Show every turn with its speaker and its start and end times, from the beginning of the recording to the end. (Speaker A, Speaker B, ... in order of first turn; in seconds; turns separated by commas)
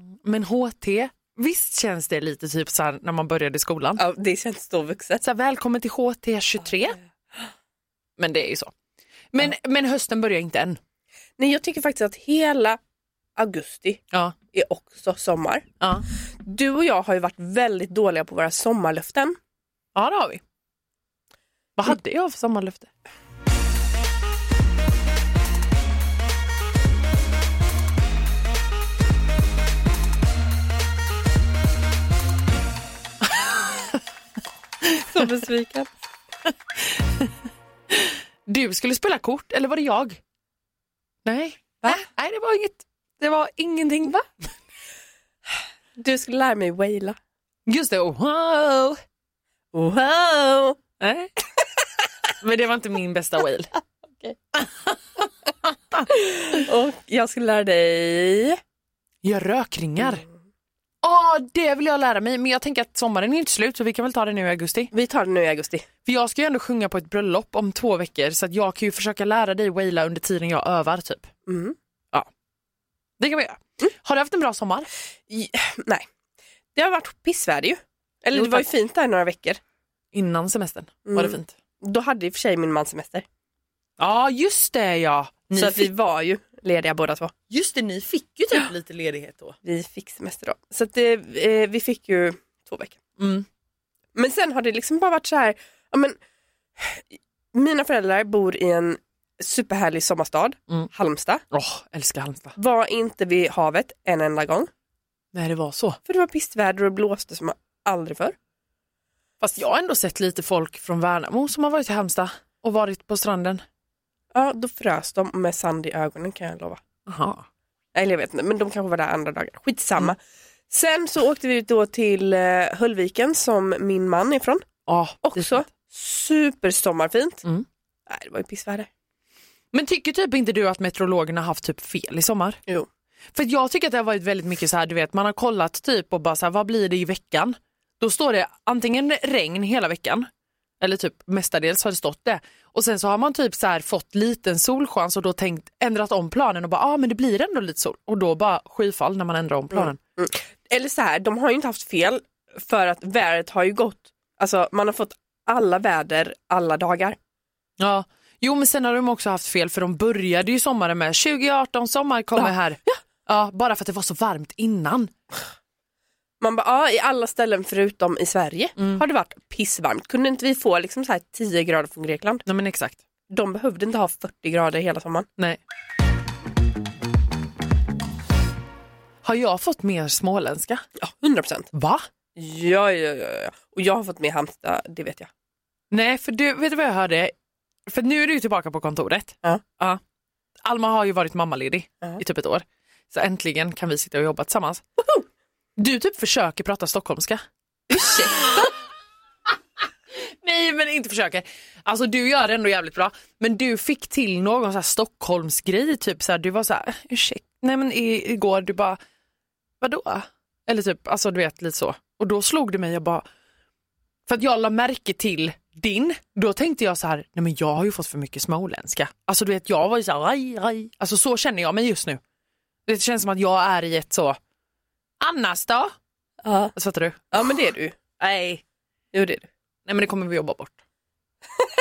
Speaker A: 0.2-4.0, Speaker B: 4.0-5.2, Speaker A: 5.2-7.0, Speaker A: 8.2-8.7, Speaker A: 9.3-10.8, Speaker B: 11.4-12.8, Speaker B: 13.4-15.7, Speaker B: 16.4-19.4, Speaker A: 19.9-20.4, Speaker A: 21.8-22.9, Speaker A: 33.4-34.0, Speaker B: 35.1-35.9, Speaker A: 37.0-37.3, Speaker A: 37.9-40.2, Speaker A: 41.2-44.2, Speaker B: 46.0-47.1, Speaker A: 47.7-49.0, Speaker B: 49.7-50.8, Speaker A: 51.0-51.3, Speaker A: 52.4-53.7, Speaker A: 54.6-55.0, Speaker B: 56.1-58.6, Speaker A: 59.2-60.2, Speaker A: 61.0-64.9, Speaker B: 64.9-65.9, Speaker A: 66.0-71.3, Speaker B: 71.5-71.8, Speaker A: 73.2-74.9, Speaker B: 75.3-76.0, Speaker B: 76.8-79.6, Speaker A: 78.3-78.7, Speaker A: 80.1-81.5, Speaker B: 81.1-83.2, Speaker A: 84.0-85.9, Speaker B: 85.5-87.3, Speaker A: 87.5-89.6, Speaker B: 89.7-93.0, Speaker A: 93.2-93.5, Speaker B: 94.2-96.2, Speaker B: 96.8-101.4, Speaker A: 101.5-102.5, Speaker B: 102.6-104.7, Speaker A: 105.3-106.0, Speaker B: 106.1-108.3, Speaker A: 109.4-113.6, Speaker B: 114.3-116.8, Speaker A: 117.1-117.5, Speaker B: 118.0-120.2, Speaker B: 120.7-124.7, Speaker A: 124.9-125.6, Speaker B: 125.2-127.4, Speaker B: 128.1-128.9, Speaker A: 129.7-132.6, Speaker A: 133.3-140.3, Speaker A: 140.8-150.0, Speaker B: 149.7-157.2, Speaker A: 157.8-165.1, Speaker B: 162.4-163.0, Speaker B: 166.4-172.4, Speaker A: 168.8-169.0, Speaker A: 172.5-173.0, Speaker B: 173.3-175.3, Speaker A: 179.2-180.8, Speaker B: 181.0-181.7, Speaker A: 181.7-182.0, Speaker B: 182.4-185.3, Speaker A: 185.9-187.3, Speaker A: 187.9-190.0, Speaker A: 190.7-194.8, Speaker A: 195.8-197.4, Speaker B: 197.9-198.7, Speaker A: 200.2-209.0, Speaker A: 209.8-213.2, Speaker A: 214.3-222.2, Speaker A: 222.9-224.4, Speaker A: 225.2-225.9, Speaker B: 226.4-226.7, Speaker A: 226.8-227.4, Speaker B: 227.3-227.9, Speaker A: 228.2-228.6, Speaker B: 229.1-229.5, Speaker A: 229.9-230.8